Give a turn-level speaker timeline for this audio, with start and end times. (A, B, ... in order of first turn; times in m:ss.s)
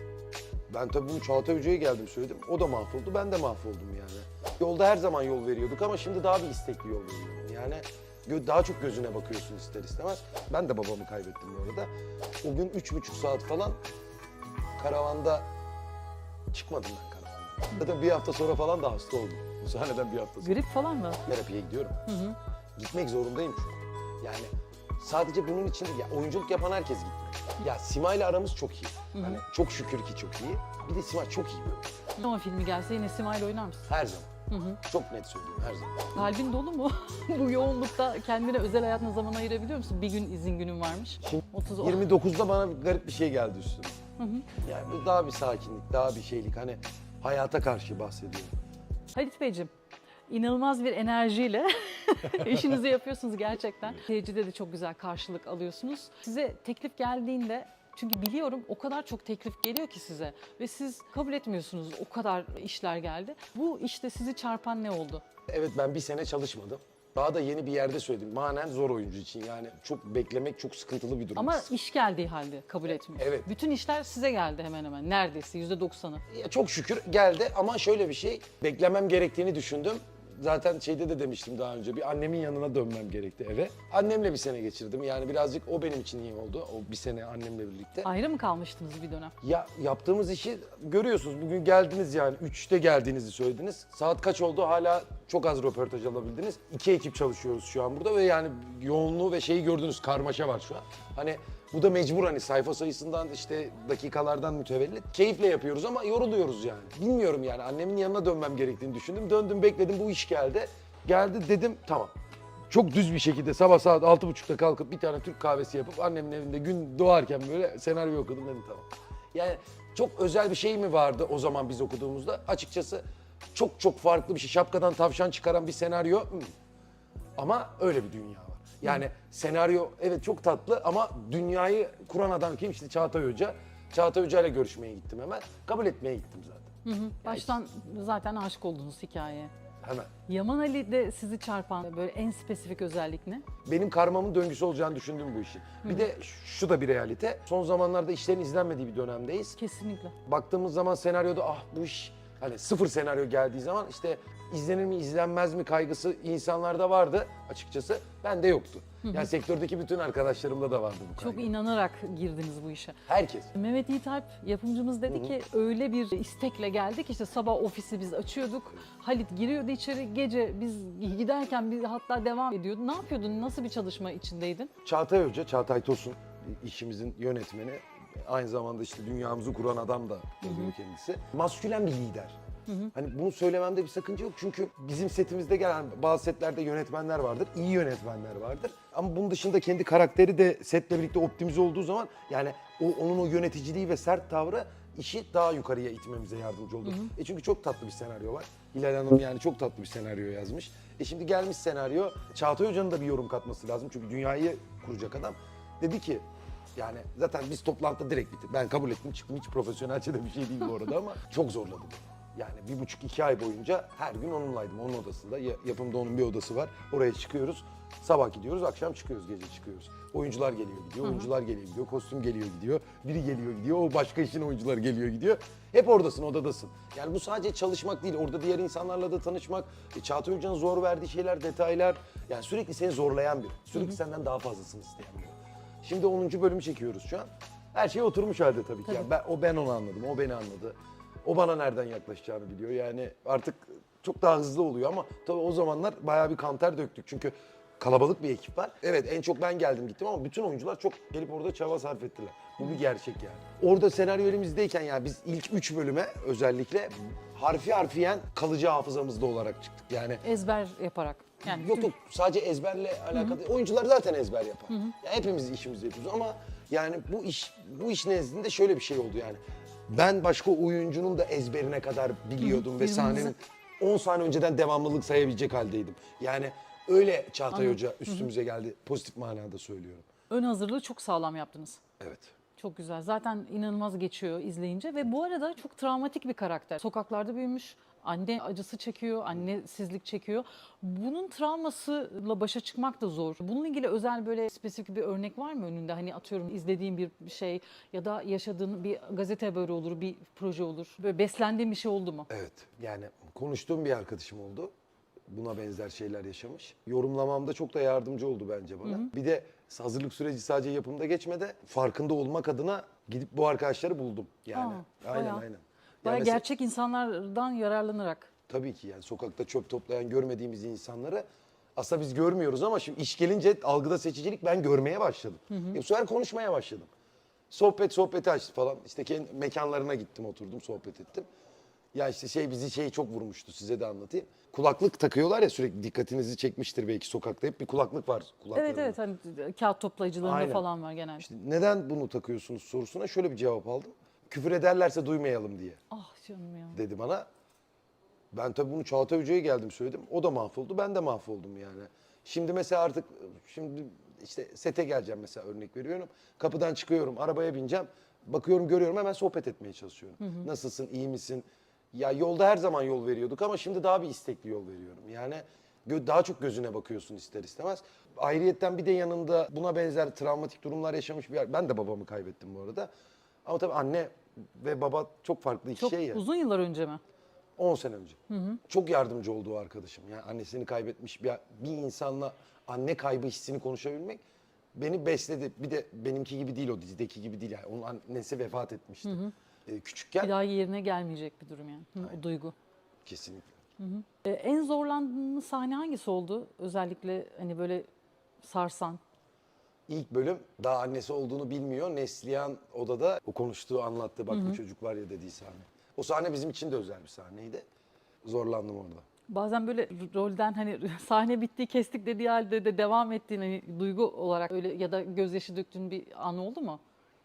0:00.7-0:11.9 A
0:12.4-0:13.8 A
0:14.8-0:15.5 A
0:16.5-0:20.6 A
0:20.4-0:21.2 B
0:21.2-0:22.0 A
0:22.0-0:22.4 B
0:22.8-0:31.9 A
0:29.2-0:29.4 B
0:32.2-0:33.9 B
0:33.9-0:36.2 A
0:34.5-0:34.8 B
0:36.1-0:42.0 B
0:41.2-0:44.0 A
0:44.2-0:44.5 B
0:44.6-0:48.5 A
0:49.1-0:49.7 B
0:50.3-1:05.2 B
1:05.5-1:11.7 A
1:11.4-1:16.2 B
1:13.1-1:13.5 A
1:16.3-1:28.1 A
1:28.0-1:29.3 B
1:29.4-1:52.1 A
1:52.7-2:03.0 A
2:03.5-2:06.5 A
2:07.4-2:16.7 A
2:16.8-2:19.5 B
2:17.2-2:17.5 A
2:19.8-2:20.1 A
2:20.3-2:23.4 B
2:23.6-2:29.6 A
2:29.6-2:30.1 B
2:30.2-2:41.5 A
2:39.0-2:39.3 B
2:41.2-2:43.0 B
2:43.0-2:43.5 A
2:43.5-2:54.7 B
2:54.8-3:02.4 A
3:00.4-3:00.7 B
3:02.9-3:26.2 A
3:16.8-3:17.1 B
3:26.8-4:20.2 A
3:41.0-3:41.3 B
4:20.2-4:21.9 B
4:21.4-4:40.0 A
4:32.4-4:33.3 B
4:37.5-4:38.3 B
4:40.3-4:41.8 B
4:42.0-4:42.3 A
4:42.6-5:02.3 B
5:02.3-5:04.7 A
5:05.3-5:16.4 A
5:08.8-5:09.1 B
5:14.5-5:15.4 B
5:16.0-5:18.3 B
5:18.5-5:21.2 A
5:21.8-5:26.9 A
5:25.5-5:25.8 B
5:27.5-5:31.2 A
5:31.9-5:39.0 A
5:38.5-5:41.2 B
5:40.2-5:40.6 A
5:41.2-5:45.8 A
5:45.9-5:46.8 B
5:46.7-5:47.3 A
5:48.3-6:12.9 A
6:00.2-6:00.5 B
6:13.4-6:16.2 A
6:15.8-6:17.0 B
6:17.6-6:24.2 A
6:18.3-6:18.6 B
6:24.7-6:30.3 A
6:29.0-6:29.3 B
6:30.2-6:32.5 B
6:33.0-6:33.6 A
6:33.8-6:37.9 B
6:38.4-6:39.0 B
6:39.9-6:47.6 A
6:44.3-6:44.6 B
6:48.2-6:49.0 A
6:49.3-6:56.8 B